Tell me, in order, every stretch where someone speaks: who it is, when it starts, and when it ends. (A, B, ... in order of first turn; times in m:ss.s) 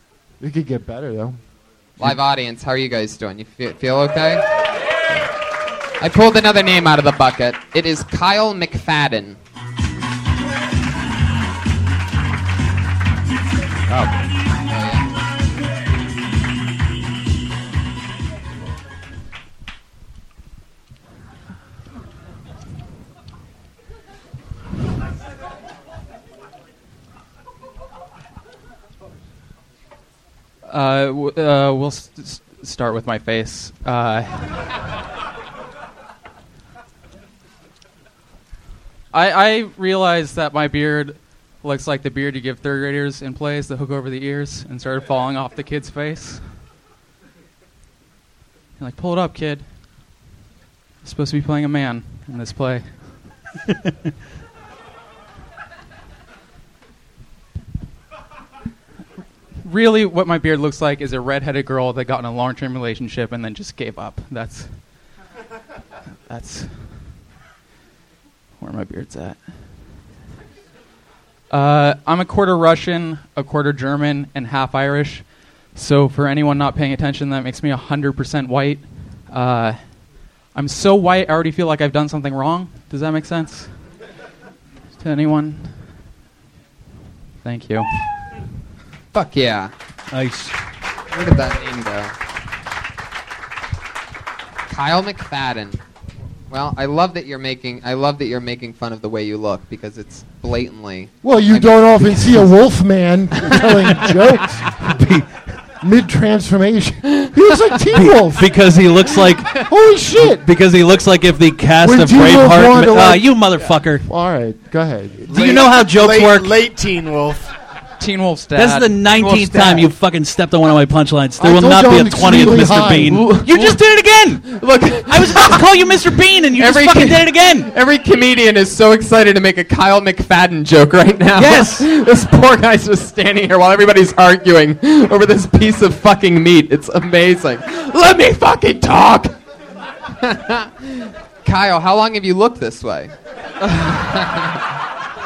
0:00.4-0:01.4 A
0:02.0-0:04.4 B
0:06.0-0:09.4 B
0:14.6-0:15.1 B
0:30.6-0:34.7 C
0:39.1-0:46.6 C
0:48.8-0:50.1 C
0:51.0-0:53.4 C
0:59.6-1:05.1 C
1:06.3-1:07.2 C
1:08.6-1:09.9 C
1:11.5-1:23.9 C
1:25.0-1:26.0 C
1:27.4-1:28.1 C
1:29.1-1:29.7 B
1:30.1-1:30.6 D
1:31.1-1:32.1 B
1:34.7-1:35.8 B
1:36.5-1:42.3 B
1:41.2-1:44.7 A
1:44.8-1:45.6 D
1:45.8-1:48.5 A
1:47.9-1:49.7 D
1:49.6-1:50.5 A
1:50.2-1:54.1 D
1:51.8-1:55.2 A
1:55.3-1:56.5 D
1:55.3-1:57.5 E
1:58.0-1:59.8 C
1:58.6-2:04.4 D
2:01.4-2:03.3 A
2:03.1-2:03.8 B
2:04.4-2:05.9 B
2:05.1-2:07.7 D
2:06.5-2:19.3 B
2:11.3-2:11.9 D
2:20.2-2:23.1 B
2:23.8-2:24.4 B